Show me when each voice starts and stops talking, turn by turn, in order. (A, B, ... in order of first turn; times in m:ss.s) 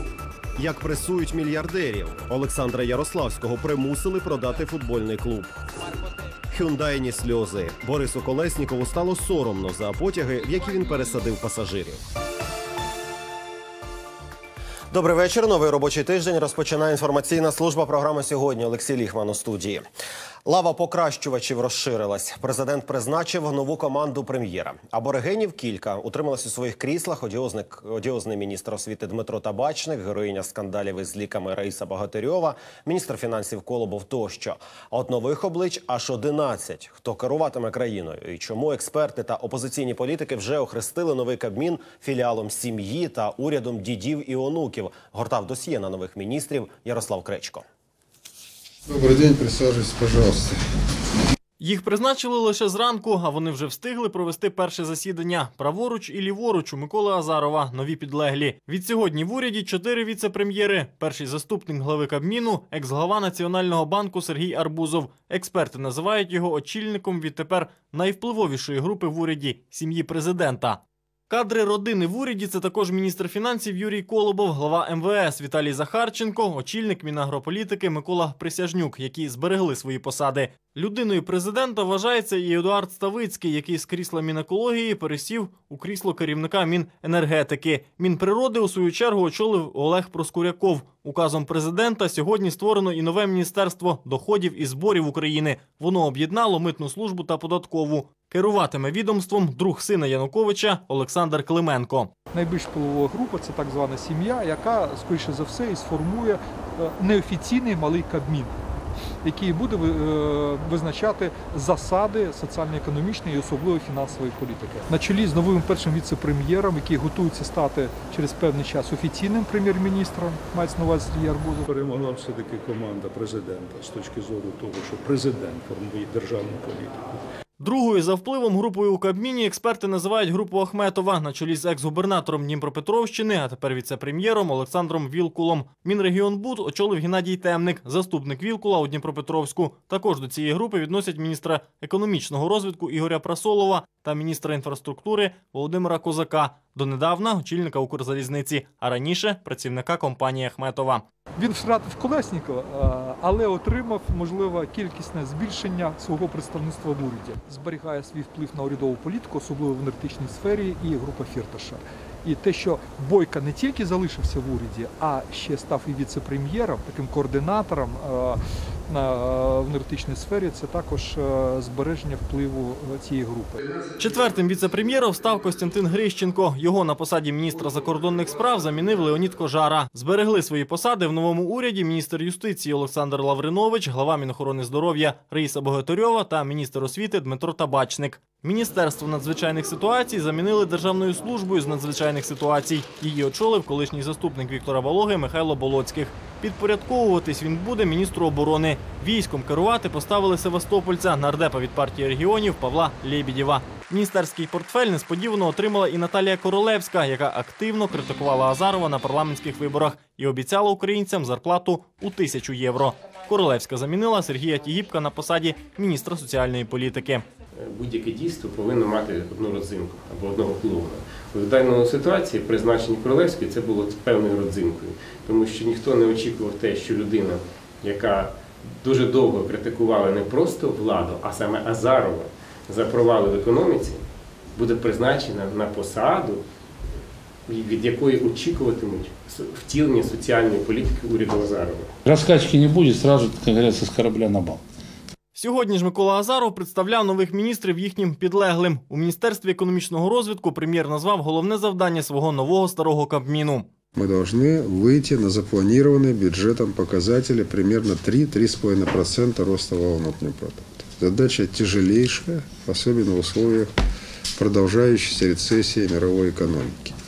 0:00.6-0:05.6 A
0:06.5-0:12.0 A
0:14.9-0:19.8 A
0:20.4-0:47.6 A
0:48.9-0:50.6 B
0:51.6-1:42.1 C
1:42.3-1:48.6 D
1:49.2-2:01.6 D
2:01.7-2:07.1 E
2:07.6-2:31.0 C
2:31.4-2:53.6 D
2:54.0-3:37.2 C
3:37.6-3:54.0 F
3:54.5-3:56.4 F
3:57.5-4:01.9 F
4:02.0-4:04.6 G
4:05.3-4:13.7 C
4:14.0-4:23.7 B
4:24.4-4:26.9 B